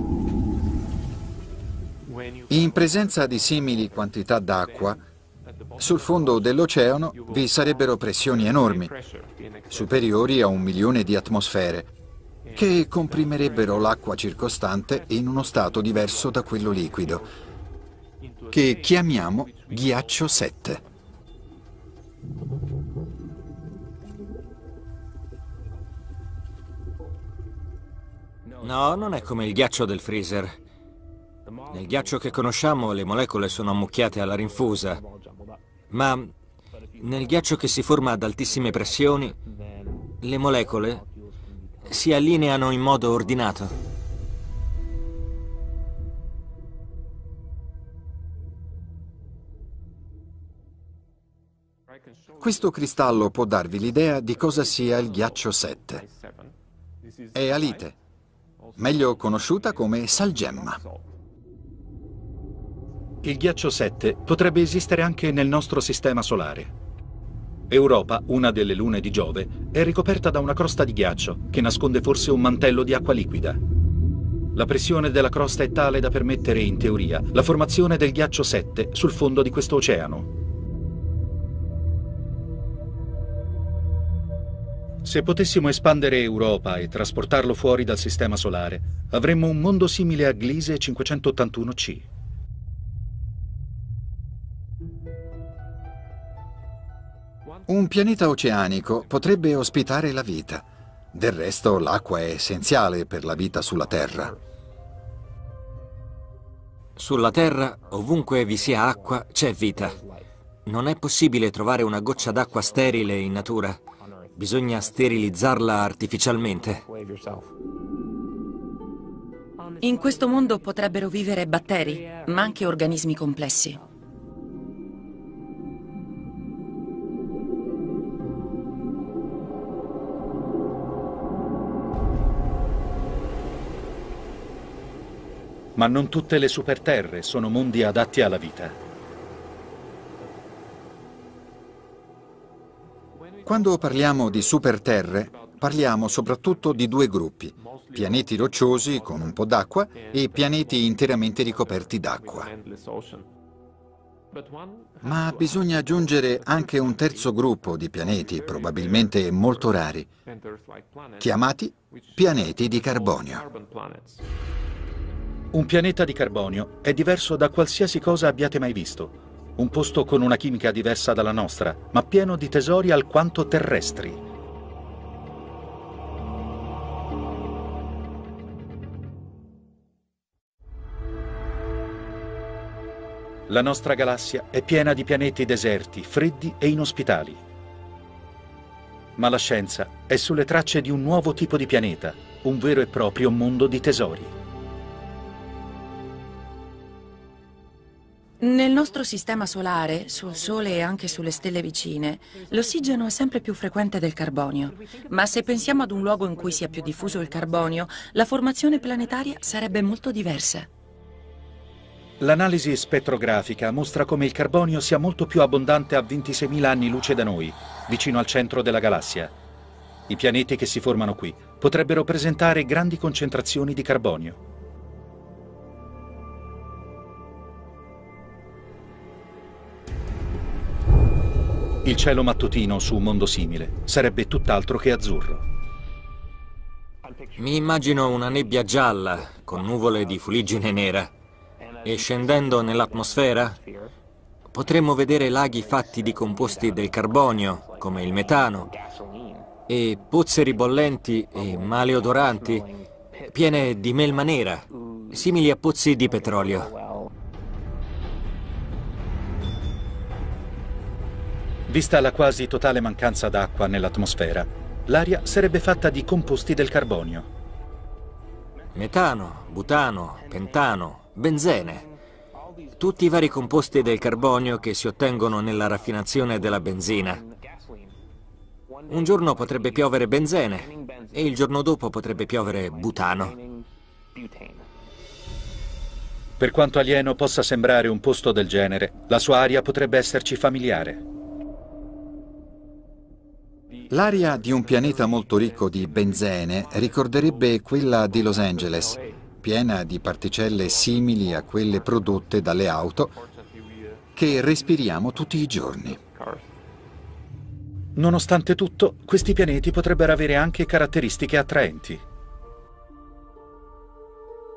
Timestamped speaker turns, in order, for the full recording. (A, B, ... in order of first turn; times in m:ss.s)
0:02.5-0:05.0 A
0:05.8-0:09.0 A
0:09.7-0:11.9 A
0:12.5-0:17.2 A
0:18.5-0:20.8 A
0:28.6-0:30.5 B
0:31.7-0:35.0 B
0:35.9-0:36.3 B
0:37.0-0:39.4 B
0:40.2-0:41.0 B
0:41.9-0:43.7 B
0:52.4-0:56.1 A
0:57.3-0:58.0 A
0:58.8-1:00.8 A
1:03.2-1:06.7 C
1:07.7-1:13.6 C
1:14.5-1:20.3 C
1:25.0-1:32.0 C
1:37.7-1:44.4 A
1:47.0-1:50.0 B
1:50.7-1:53.8 B
1:54.4-1:56.8 B
1:59.8-2:03.8 D
2:15.8-2:18.8 C
2:23.4-2:32.5 A
2:35.0-2:40.1 A
2:41.2-2:43.5 A
2:45.5-2:54.2 C
3:03.5-3:07.4 C
3:09.2-3:14.3 C
3:18.4-3:30.7 D
3:32.2-3:39.3 C
3:40.1-3:44.4 C
3:51.8-3:55.4 C
3:57.4-4:01.1 B
4:01.8-4:03.6 B
4:04.5-4:08.7 B
4:09.7-4:12.7 B
4:13.3-4:16.7 B
4:21.7-4:27.3 C
4:28.8-4:31.9 B
4:32.8-4:37.2 B
4:38.9-4:43.4 B
4:46.4-4:51.0 C
4:53.9-5:03.2 A
5:04.2-5:06.0 A
5:08.0-5:12.0 C